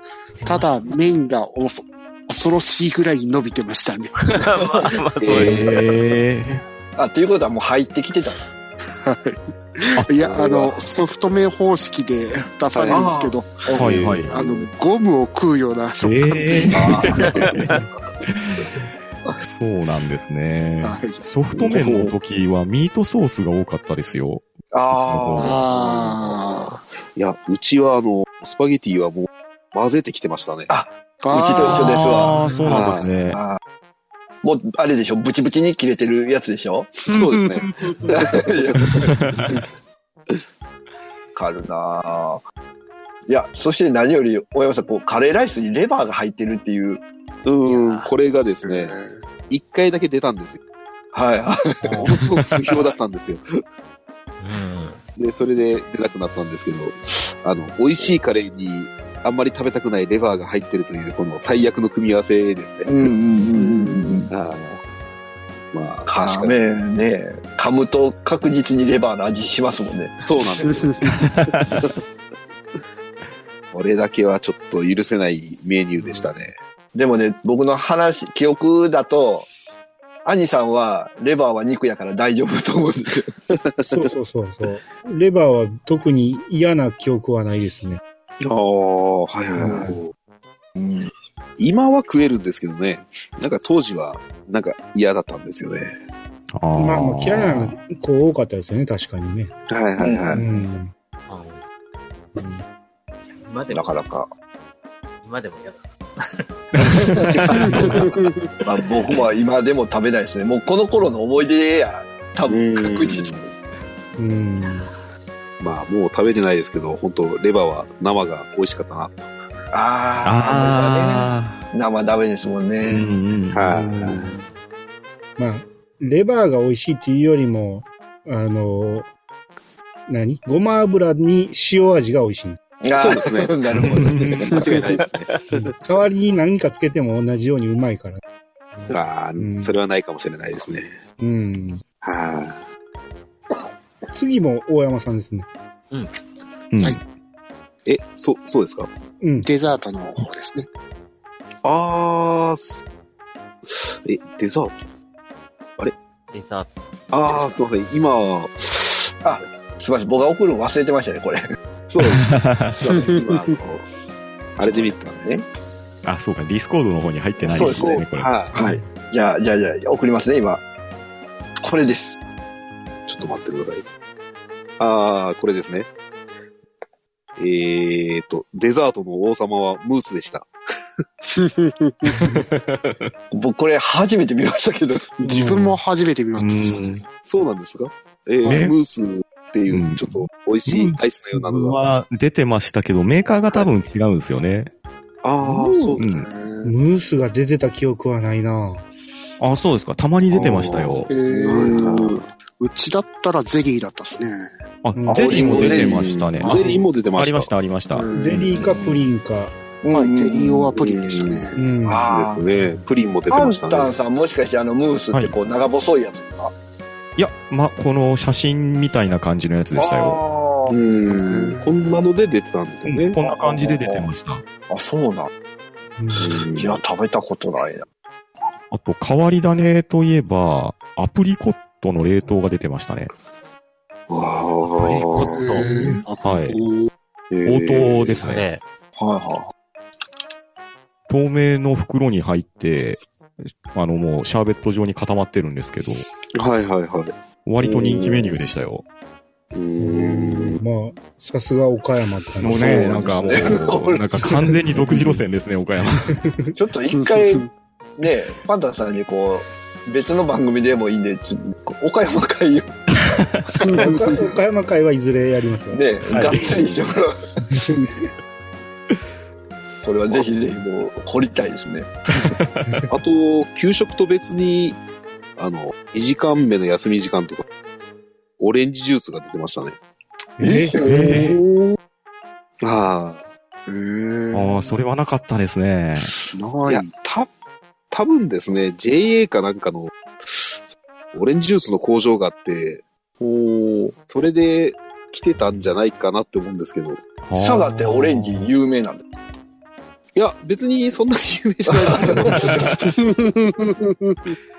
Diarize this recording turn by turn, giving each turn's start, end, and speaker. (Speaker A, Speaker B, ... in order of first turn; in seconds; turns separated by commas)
Speaker A: 0.4-0.7, Speaker B: 0.5-4.2, Speaker A: 4.3-5.9, Speaker C: 5.2-5.7, Speaker D: 5.3-6.6, Speaker C: 7.0-8.4, Speaker B: 9.0-13.7, Speaker C: 10.3-10.7, Speaker E: 12.7-13.1, Speaker C: 12.9-13.9, Speaker D: 13.8-14.3, Speaker E: 13.8-14.7, Speaker B: 14.3-16.8, Speaker D: 16.0-18.6, Speaker C: 16.7-17.7, Speaker D: 19.4-25.6, Speaker B: 20.8-21.2, Speaker E: 21.6-22.1, Speaker C: 24.7-25.6, Speaker B: 25.4-26.8, Speaker E: 25.5-30.7, Speaker C: 30.7-32.4, Speaker B: 31.2-32.1, Speaker D: 31.6-33.4, Speaker E: 32.6-33.1, Speaker C: 33.3-33.6, Speaker C: 34.4-37.0, Speaker E: 37.0-38.5, Speaker B: 37.1-38.0, Speaker C: 38.0-39.2, Speaker C: 41.4-42.4, Speaker C: 43.3-47.0, Speaker E: 47.5-49.0, Speaker A: 47.7-48.1, Speaker B: 48.6-49.2, Speaker E: 49.5-50.6, Speaker C: 51.1-52.2, Speaker A: 51.8-52.8, Speaker E: 52.0-53.4, Speaker A: 54.4-55.0, Speaker E: 55.2-63.1, Speaker C: 62.9-64.3, Speaker B: 63.6-63.9, Speaker E: 64.3-64.8, Speaker E: 65.7-66.6, Speaker C: 66.1-70.7, Speaker E: 70.2-72.0, Speaker D: 71.2-71.8, Speaker E: 73.7-76.6, Speaker C: 77.0-79.5, Speaker C: 80.2-83.4, Speaker E: 83.6-84.0, Speaker F: 83.9-88.0, Speaker E: 88.4-90.1, Speaker C: 89.7-89.9, Speaker C: 90.8-91.1, Speaker E: 91.6-96.0, Speaker D: 96.5-97.8, Speaker F: 96.8-99.5, Speaker E: 99.7-100.4, Speaker C: 100.0-100.4, Speaker F: 100.3-100.9, Speaker A: 101.3-101.6, Speaker F: 102.3-102.6, Speaker A: 103.4-104.0, Speaker C: 103.7-104.3, Speaker A: 105.2-108.2, Speaker C: 107.2-107.6, Speaker B: 108.0-108.3, Speaker C: 108.6-113.3, Speaker E: 112.5-113.5, Speaker F: 114.2-114.9, Speaker E: 115.6-119.3, Speaker C: 119.7-123.0, Speaker D: 120.2-121.7, Speaker D: 122.8-123.7, Speaker E: 123.5-124.4, Speaker F: 123.7-124.3, Speaker F: 125.4-129.1, Speaker F: 130.1-132.6, Speaker C: 132.8-135.0, Speaker E: 133.0-135.7, Speaker D: 133.8-134.6, Speaker F: 135.8-138.2, Speaker E: 138.9-141.0, Speaker F: 139.4-139.7, Speaker F: 141.2-141.8, Speaker E: 142.0-142.6, Speaker F: 144.1-145.5, Speaker D: 146.7-147.0, Speaker E: 147.9-148.9, Speaker F: 149.2-149.5, Speaker B: 149.4-150.7, Speaker E: 151.6-152.8, Speaker E: 153.7-154.8, Speaker A: 156.3-156.7, Speaker E: 157.1-159.1, Speaker C: 159.2-161.4, Speaker E: 161.9-163.9, Speaker D: 162.0-162.8, Speaker E: 164.6-165.3, Speaker C: 164.6-165.4, Speaker D: 166.0-168.4, Speaker C: 167.4-168.0, Speaker E: 167.4-168.6, Speaker F: 168.5-168.9, Speaker C: 168.6-170.6, Speaker C: 171.6-172.2, Speaker E: 173.1-173.8, Speaker E: 174.8-175.9, Speaker E: 177.4-180.5, Speaker B: 181.4-181.9, Speaker D: 182.1-183.1, Speaker C: 183.3-185.2, Speaker B: 185.2-187.0, Speaker F: 185.4-185.7, Speaker D: 186.4-187.1, Speaker E: 187.2-191.8, Speaker D: 188.5-188.8, Speaker D: 189.7-194.7, Speaker E: 195.2-196.0, Speaker B: 195.8-196.8, Speaker D: 196.0-196.3, Speaker F: 196.6-198.8, Speaker D: 199.4-201.1, Speaker E: 200.3-202.3, Speaker B: 201.1-204.5, Speaker D: 204.8-208.1, Speaker F: 205.0-205.7, Speaker C: 205.1-206.5, Speaker E: 205.3-207.5, Speaker B: 207.9-208.6, Speaker F: 208.1-209.5, Speaker C: 208.5-209.0, Speaker C: 209.8-210.7, Speaker B: 209.9-211.6, Speaker E: 210.8-211.5, Speaker F: 211.6-212.1, Speaker C: 211.8-212.4, Speaker E: 212.1-213.9, Speaker C: 213.3-216.5, Speaker D: 217.2-220.2, Speaker C: 219.8-220.8, Speaker B: 220.7-221.7, Speaker E: 220.9-223.2, Speaker D: 222.9-224.4, Speaker C: 223.2-224.1, Speaker C: 224.7-225.3, Speaker F: 226.0-226.4, Speaker E: 226.2-226.8, Speaker C: 226.6-227.8, Speaker D: 228.7-233.1, Speaker E: 234.1-235.4, Speaker A: 234.8-235.7, Speaker B: 235.2-236.9, Speaker F: 235.6-236.0, Speaker D: 236.2-236.6, Speaker E: 237.3-238.2, Speaker D: 237.4-238.5, Speaker A: 238.1-238.6, Speaker C: 239.0-239.5, Speaker D: 241.1-246.1, Speaker E: 246.3-248.4, Speaker D: 247.4-248.8, Speaker E: 249.5-250.6, Speaker F: 249.8-253.0, Speaker D: 252.4-256.2, Speaker E: 252.5-253.5, Speaker C: 252.7-254.1, Speaker F: 256.1-256.6, Speaker C: 256.6-257.5, Speaker B: 256.9-257.5, Speaker C: 258.0-262.8, Speaker B: 263.6-264.1, Speaker F: 263.7-265.8, Speaker C: 265.7-267.4, Speaker D: 266.1-266.5, Speaker F: 267.5-267.8, Speaker C: 269.8-272.3, Speaker D: 272.2-272.8, Speaker E: 272.9-274.8, Speaker E: 275.4-277.5, Speaker E: 278.4-279.8, Speaker F: 280.4-281.2, Speaker C: 280.4-281.1, Speaker D: 280.8-281.3, Speaker B: 280.9-281.8, Speaker E: 282.6-283.2, Speaker B: 283.7-284.6, Speaker D: 284.3-286.1, Speaker B: 286.3-286.9, Speaker E: 286.7-287.3, Speaker E: 287.9-290.6, Speaker E: 291.1-292.8, Speaker C: 293.3-293.9, Speaker E: 293.8-297.0, Speaker D: 297.2-298.5, Speaker C: 297.3-299.0, Speaker E: 300.2-302.8, Speaker C: 301.7-302.6, Speaker B: 302.7-304.3